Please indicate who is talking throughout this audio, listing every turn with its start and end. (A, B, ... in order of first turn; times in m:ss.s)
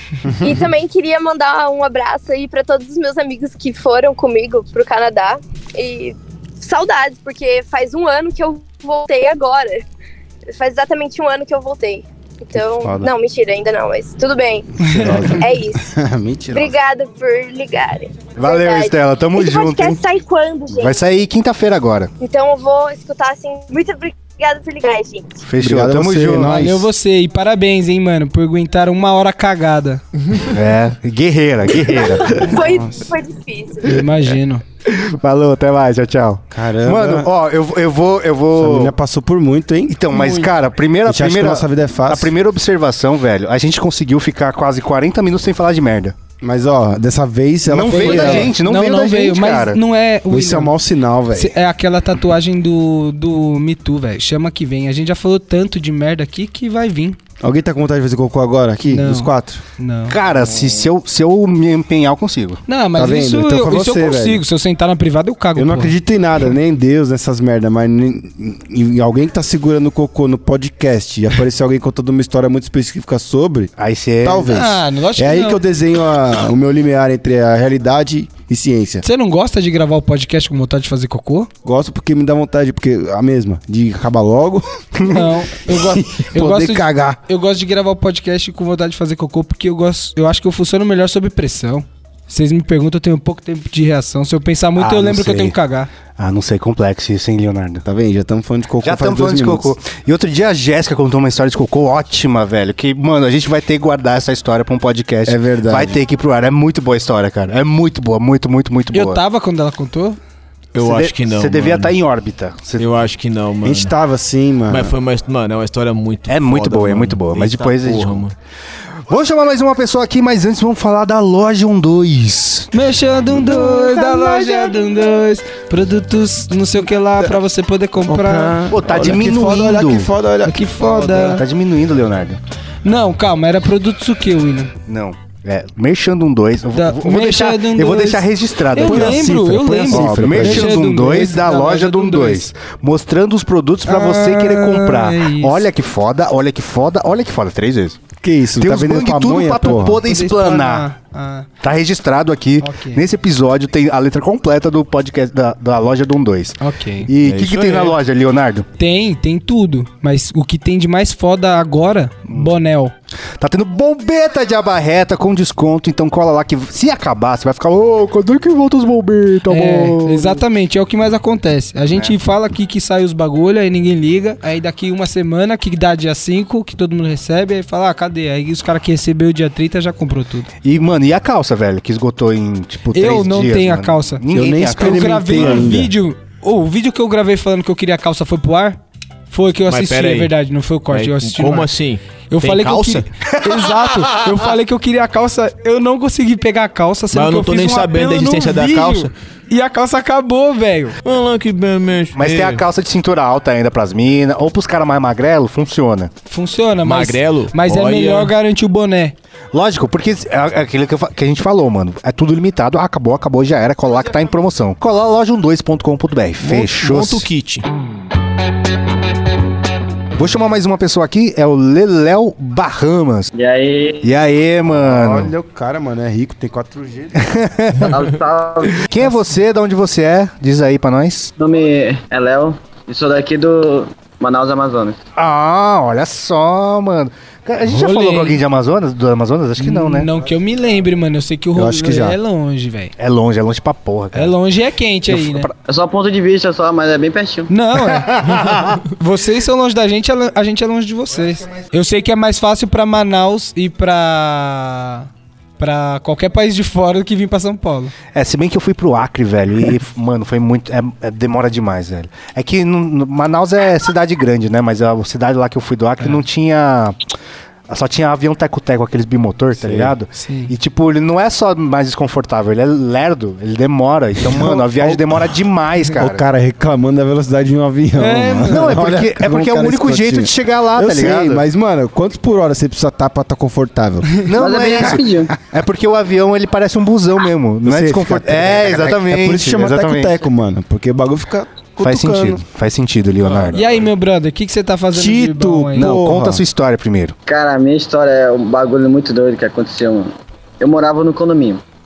0:00.3-0:00.6 A
0:00.4-0:09.8 B
0:10.5-0:15.8 B
0:12.8-0:13.1 A
0:14.8-0:15.2 C
0:14.9-0:16.7 A
0:16.5-0:21.0 B
0:18.4-0:20.0 D
0:20.7-0:22.1 D
0:22.2-0:25.4 B
0:25.4-0:26.6 D
0:25.6-0:26.9 A
0:26.4-0:30.0 C
0:30.5-0:32.5 D
0:31.9-0:34.0 B
0:32.6-0:32.9 A
0:33.8-0:34.6 C
0:34.8-0:38.9 D
0:36.5-0:37.3 A
0:38.5-0:40.4 A
0:39.9-0:46.2 D
0:41.0-0:42.3 A
0:46.4-0:48.5 A
0:47.6-0:49.8 D
0:47.8-0:50.7 C
0:50.3-0:51.5 A
0:51.3-0:57.2 C
0:57.4-0:59.6 A
0:58.9-1:00.2 C
1:00.1-1:02.6 D
1:02.7-1:05.9 C
1:02.9-1:04.4 A
1:05.6-1:13.7 A
1:13.8-1:14.6 D
1:14.2-1:19.0 A
1:14.5-1:15.6 C
1:19.0-1:21.5 C
1:21.6-1:25.1 A
1:25.0-1:25.2 D
1:25.1-1:35.9 C
1:25.7-1:27.2 A
1:34.8-1:35.6 D
1:36.2-1:37.8 D
1:37.8-1:39.7 A
1:38.8-1:49.2 D
1:45.2-1:46.0 A
1:48.9-1:50.2 C
1:50.7-1:51.9 E
1:50.8-1:52.9 D
1:52.8-1:53.9 E
1:53.6-1:55.0 A
1:54.7-1:58.3 E
1:56.3-1:58.2 D
1:59.1-2:02.7 D
2:02.7-2:08.6 C
2:08.0-2:11.4 A
2:08.7-2:10.1 D
2:10.4-2:11.4 C
2:11.1-2:12.4 D
2:12.8-2:14.7 C
2:14.9-2:19.3 D
2:16.7-2:22.5 C
2:18.8-2:20.8 A
2:19.9-2:28.0 D
2:23.8-2:25.6 C
2:28.2-2:30.0 A
2:28.6-2:30.8 D
2:30.0-2:31.5 C
2:31.6-2:38.6 D
2:32.6-2:33.0 C
2:36.6-2:37.1 C
2:37.2-2:38.0 E
2:38.8-2:42.9 C
2:43.4-2:50.4 D
2:49.5-3:00.5 C
3:00.6-3:05.7 D
3:02.9-3:08.8 C
3:04.3-3:05.9 A
3:09.3-3:11.7 C
3:09.7-3:10.3 E
3:10.9-3:13.1 E
3:12.3-3:21.0 C
3:17.1-3:19.1 E
3:21.0-3:22.6 E
3:22.1-3:26.1 D
3:26.3-3:29.1 C
3:26.8-3:28.3 E
3:29.5-3:37.3 D
3:36.4-3:37.6 E
3:40.2-3:43.3 D
3:43.3-3:44.1 F
3:44.0-3:45.3 D
3:44.6-3:47.3 A
3:47.2-3:48.0 D
3:47.9-3:48.9 F
3:48.7-3:51.3 D
3:51.4-3:55.0 F
3:55.2-4:00.1 D
3:57.6-3:58.4 C
3:59.6-4:02.9 C
4:01.5-4:02.2 A
4:03.0-4:04.3 D
4:04.1-4:05.5 C
4:05.1-4:05.5 D
4:05.7-4:07.5 F
4:07.5-4:08.3 C
4:07.8-4:08.8 D
4:08.9-4:17.9 C
4:18.1-4:27.0 D
4:27.7-4:36.2 D
4:29.6-4:29.9 A
4:30.1-4:30.5 C
4:34.2-4:35.3 A
4:35.9-4:44.2 A
4:38.0-4:38.7 C
4:38.5-4:41.4 D
4:44.2-4:50.2 D
4:44.4-4:45.3 F
4:47.6-4:52.4 A
4:51.8-4:53.6 D
4:53.5-4:55.9 C
4:54.9-4:56.4 A
4:55.8-4:57.1 D
4:57.2-5:01.6 F